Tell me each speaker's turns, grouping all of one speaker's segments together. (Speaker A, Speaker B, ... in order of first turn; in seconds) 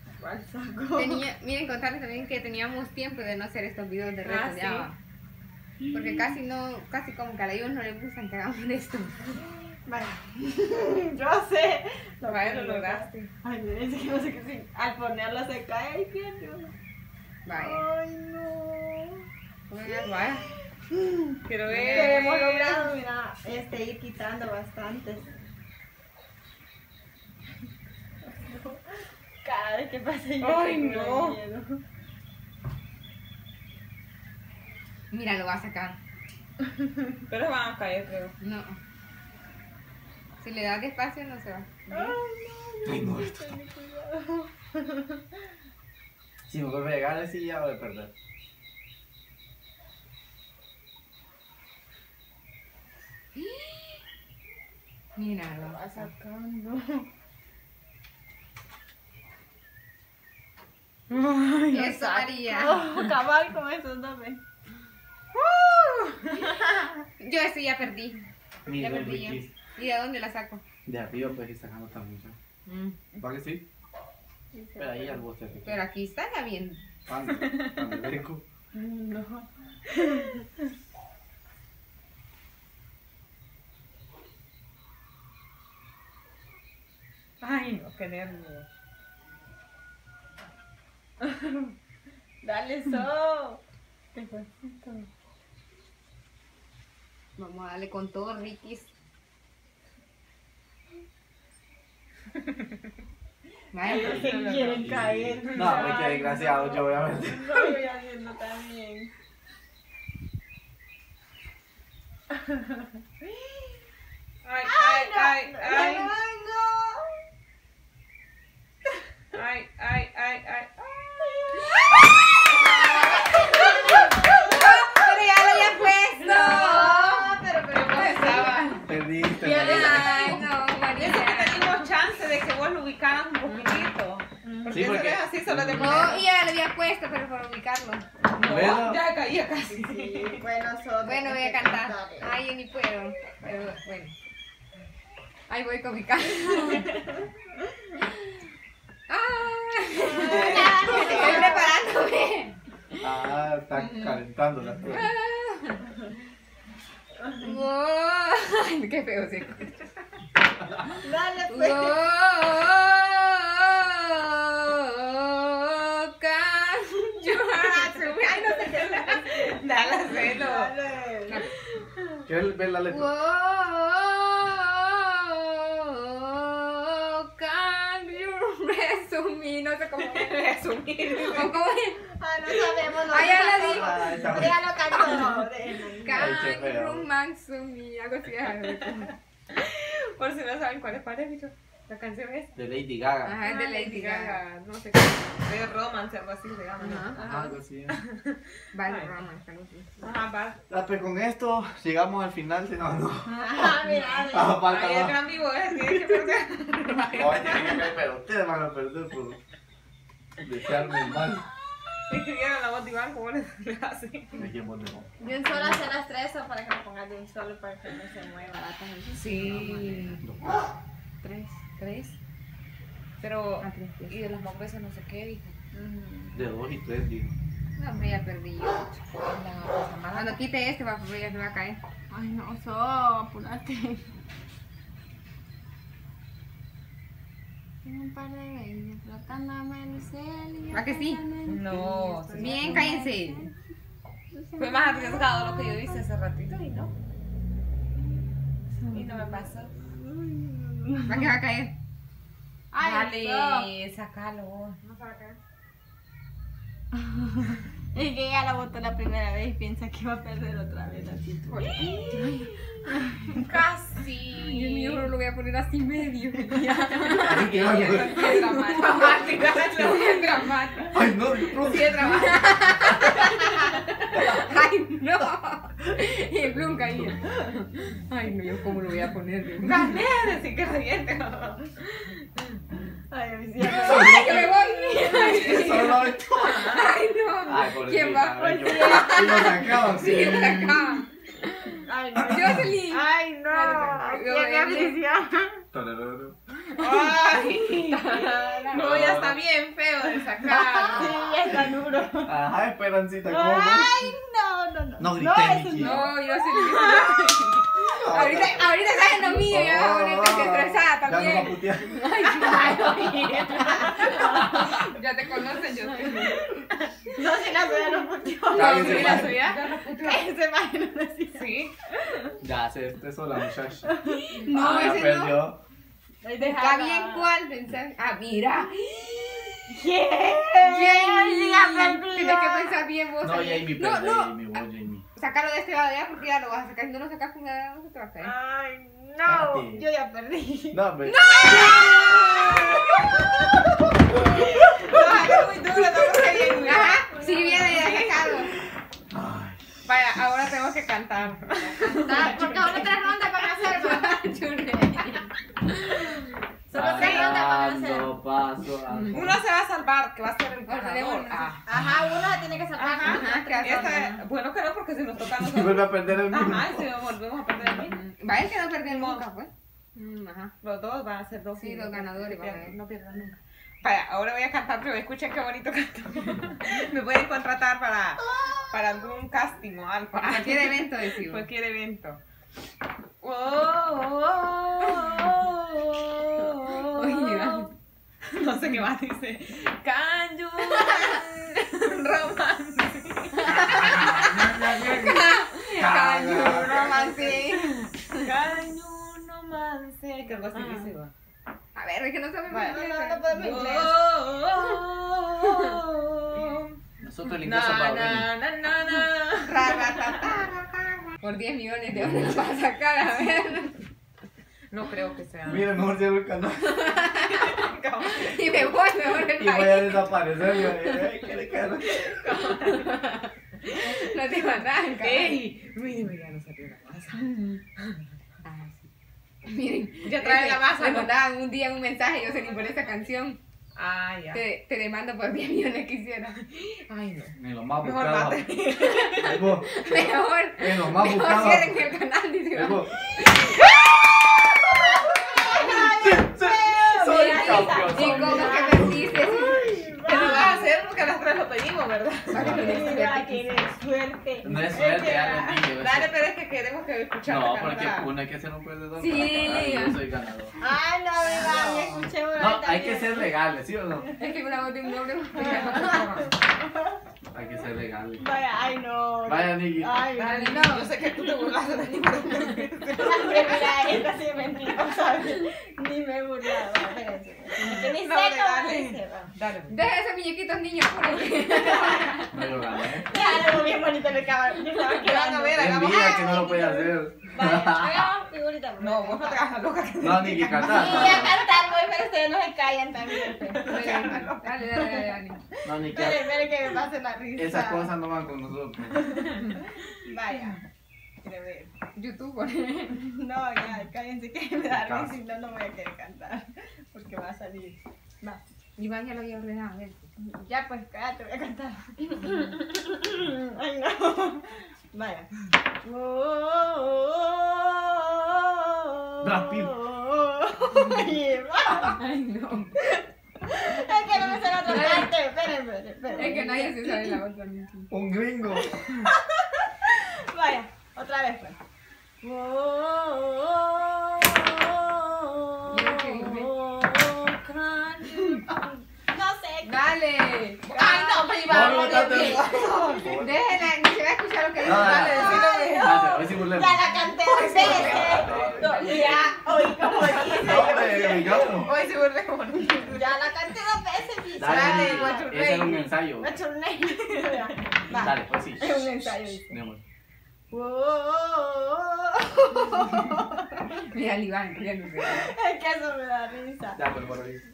Speaker A: 0.2-1.2, 9.4-16.7, 17.5-19.3, 20.9-25.3, 28.2-31.8, 41.9-45.2, 55.7-57.1, 61.6-64.4, 74.5-75.2, 78.7-80.4, 91.2-91.7, 92.4-93.6, 94.1-95.1, 103.8-109.1, 113.2-113.8, 114.6-117.2, 122.6-124.9, 126.2-128.6, 129.3-130.5, 134.4-134.9, 139.7-142.3, 150.0-151.7, 161.0-162.0, 170.1-171.4, 182.1-186.3, 203.2-204.6, 215.2-220.1, 225.7-226.4, 232.1-234.1, 237.8-243.5, 244.3-246.0, 248.8-251.3, 252.7-253.7, 257.0-263.2, 283.1-285.6, 288.4-289.8, 291.8-295.6, 297.9-298.7, 300.2-302.3, 303.2-307.2, 313.8-314.2, 316.6-319.3, 319.9-322.4, 323.9-324.4, 326.2-327.3, 329.7-332.9, 338.2-340.8, 341.4-343.5, 344.1-345.3, 346.3-348.3, 351.8-354.1, 356.7-358.1, 361.6-364.0, 402.5-404.0, 445.3-450.7, 452.4-455.6, 460.6-463.4, 465.3-467.0, 468.2-470.8, 472.8-479.3, 483.0-489.6, 490.6-494.1, 494.8-495.0, 495.8-497.9, 499.0-500.6, 501.2-501.7, 502.9-508.4, 510.2-515.3, 515.8-522.0, 522.9-527.2, 528.5-531.6, 532.2-539.9, 540.7-542.5, 545.0-551.4, 552.7-555.4, 556.2-559.6, 560.5-563.8, 565.0-566.8
Speaker B: 0.9-4.9, 5.9-9.2, 17.4-17.8, 19.7-20.4, 21.7-22.2, 35.1-36.0, 38.4-38.8, 40.4-42.1, 53.4-53.8, 55.1-56.1, 61.7-62.9, 67.2-68.2, 68.7-70.6, 72.7-72.9, 75.6-76.8, 97.3-98.9, 103.7-104.2, 123.8-127.3, 127.9-128.8, 129.5-131.6, 133.4-133.9, 135.8-138.1, 141.0-144.1, 145.5-147.0, 149.1-152.6, 153.8-154.2, 154.9-155.9, 157.3-159.9, 161.5-169.2, 172.9-180.5, 181.2-182.0, 183.1-184.1, 184.9-185.4, 186.0-189.1, 193.2-194.4, 196.8-197.2, 198.7-200.1, 221.2-221.5, 223.6-224.2, 227.8-229.0, 230.1-231.8, 240.7-241.2, 242.3-243.5, 251.1-251.7, 252.8-253.6, 261.6-262.4, 264.3-270.9, 272.0-280.0, 283.6-295.0, 296.7-297.7, 300.5-301.1, 305.8-316.4, 319.0-320.1, 324.3-325.5, 326.4-329.6, 330.6-334.3, 335.1-338.3, 341.1-343.6, 345.1-348.5, 351.8-356.2, 358.9-359.2, 360.7-361.6, 363.0-364.2, 367.6-370.5, 371.6-372.8, 380.2-381.4, 384.8-385.1, 386.8-387.7, 393.4-398.1, 401.7-403.7, 409.4-410.7, 411.2-413.8, 416.8-417.4, 418.1-421.1, 422.6-425.4, 427.2-427.6, 428.4-428.9, 429.4-433.4, 434.3-436.4, 439.3-443.8, 447.1-450.5, 452.3-453.7, 458.9-460.0, 461.3-461.9, 464.2-466.3, 470.2-470.9, 479.7-482.4, 493.6-495.4, 501.9-503.0, 508.8-510.1, 520.7-521.1, 521.7-522.7, 524.1-525.1, 526.1-527.9, 535.7-536.5, 539.6-541.3, 543.1-545.7, 547.4-549.1, 563.8-565.3
Speaker C: 4.2-4.9, 12.3-13.3, 21.4-22.9, 30.4-31.4, 37.3-38.3, 61.1-61.9, 65.3-66.9, 87.4-88.7, 104.0-104.9, 105.4-105.8, 114.4-116.1, 119.3-121.7, 122.5-124.2, 127.7-128.8, 130.9-136.2, 138.3-140.4, 150.2-151.5, 167.9-170.7, 180.0-181.5, 189.5-192.5, 193.4-197.2, 197.9-199.1, 200.0-200.6, 204.6-207.8, 212.1-214.5, 219.1-220.2, 221.5-222.1, 223.2-225.5, 229.1-230.4, 241.4-242.9, 244.6-246.9, 248.9-249.7, 253.1-255.4, 261.5-262.5, 263.3-265.1, 267.2-270.9, 271.4-273.1, 279.6-282.6, 285.0-285.9, 286.4-286.8, 296.8-301.1, 313.7-316.4, 318.5-320.2, 321.3-321.7, 344.6-348.4, 349.8-352.6, 357.0-357.4, 359.1-361.6, 362.7-368.0, 368.8-369.2, 370.6-382.2, 383.2-387.7, 388.3-393.7, 396.6-397.4, 398.2-401.1, 403.4-406.8, 407.4-410.3, 414.7-415.7, 417.2-418.4, 421.8-423.0, 425.0-428.0, 430.0-431.1, 432.2-432.9, 433.8-434.4, 436.5-439.4, 450.0-452.7, 455.8-458.1, 461.2-462.0, 470.1-473.6, 477.6-479.7, 484.7-486.3, 488.8-491.2, 493.6-494.5, 540.7-543.1, 544.7-546.0, 547.4-549.2, 550.0-553.1, 554.4-555.9
Speaker D: 42.8-43.4, 46.5-48.1, 68.7-69.5, 70.8-72.3, 73.2-73.6, 74.8-75.8, 77.1-78.4, 104.8-107.8, 128.8-130.4, 134.7-136.2, 138.4-139.0, 153.0-155.1, 172.2-173.1, 183.6-185.3, 186.1-187.1, 192.6-193.4, 197.2-198.0, 200.7-203.7, 204.3-205.2, 207.1-209.4, 210.4-211.4, 214.4-215.1, 220.2-220.5, 226.3-227.3, 267.2-268.4, 270.9-272.0, 283.6-284.5, 285.3-286.7, 287.4-290.9, 292.1-292.7, 295.7-296.4, 298.7-299.4, 302.2-303.9, 305.0-306.1, 307.9-308.7, 309.4-312.1, 318.5-319.4, 322.4-323.9, 324.5-325.6, 333.2-335.0, 339.2-339.8, 340.7-341.5, 349.1-349.7, 356.7-359.4, 365.2-366.9, 393.5-395.2, 395.7-396.9, 407.0-408.3, 412.0-412.4, 415.4-417.0, 419.2-422.2, 437.4-438.5, 439.1-441.9, 442.5-442.9, 445.6-449.2, 452.3-452.8, 454.4-456.1, 457.2-460.5, 462.3-464.1, 467.3-468.3, 469.2-469.9, 482.3-483.1, 485.6-488.1, 490.0-491.4, 495.6-496.5, 497.4-499.1, 504.7-505.1, 519.2-519.7, 527.9-528.7, 541.5-543.4, 544.6-546.8, 547.4-549.2, 550.1-551.7, 554.4-556.3, 557.9-558.9, 559.5-559.8, 566.7-567.4